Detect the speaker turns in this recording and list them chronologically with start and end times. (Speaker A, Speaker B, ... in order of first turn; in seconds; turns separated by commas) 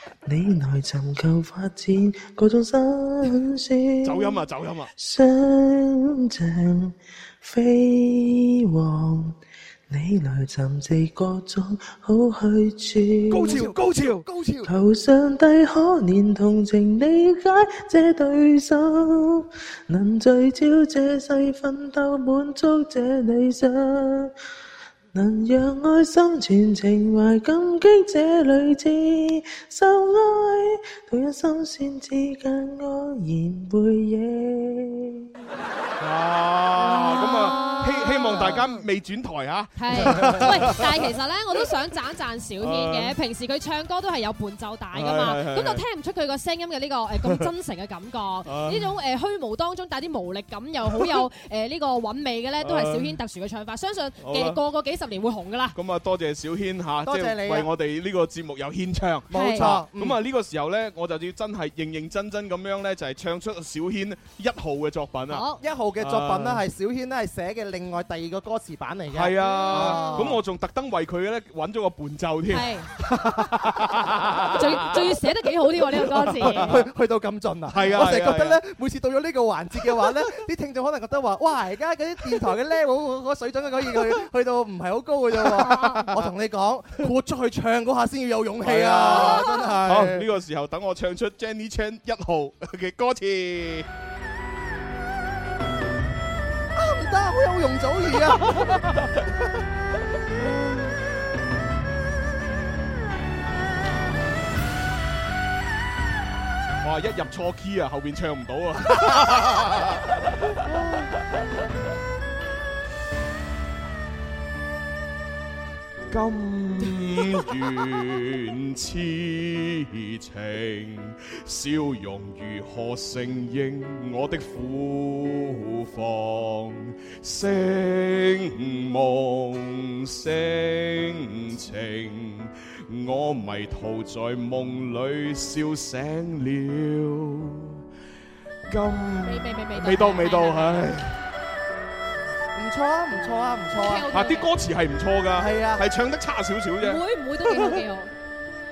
Speaker A: 0.2-13.7, Speaker B: 4.0-4.9, Speaker B: 13.3-14.3, Speaker C: 13.4-14.7, Speaker A: 14.6-24.3, Speaker A: 25.1-35.3, Speaker B: 36.0-41.0, Speaker D: 36.8-38.8, Speaker D: 39.8-55.8, Speaker C: 40.0-40.4, Speaker B: 42.6-43.1, Speaker B: 44.9-45.8, Speaker B: 48.5-48.9, Speaker B: 52.6-53.2, Speaker B: 54.2-54.6, Speaker B: 55.7-65.5, Speaker C: 57.0-57.7, Speaker C: 59.3-60.2, Speaker D: 59.3-59.8, Speaker D: 65.3-65.6, Speaker C: 65.6-70.4, Speaker B: 66.0-66.6, Speaker B: 69.1-75.2, Speaker D: 69.4-70.3, Speaker D: 72.5-72.9, Speaker D: 74.5-76.9, Speaker B: 75.9-76.9, Speaker C: 76.4-90.3, Speaker B: 77.7-78.6, Speaker B: 85.5-86.2, Speaker D: 85.7-86.1, Speaker B: 88.6-93.9, Speaker C: 96.8-99.1, Speaker B: 98.5-98.8, Speaker B: 100.4-100.9, Speaker B: 106.8-111.1, Speaker B: 116.1-137.8, Speaker B: 138.7-141.2, Speaker D: 139.2-140.9, Speaker C: 142.6-144.1, Speaker D: 143.7-144.5, Speaker B: 144.1-147.0, Speaker C: 145.4-145.9, Speaker D: 146.8-148.1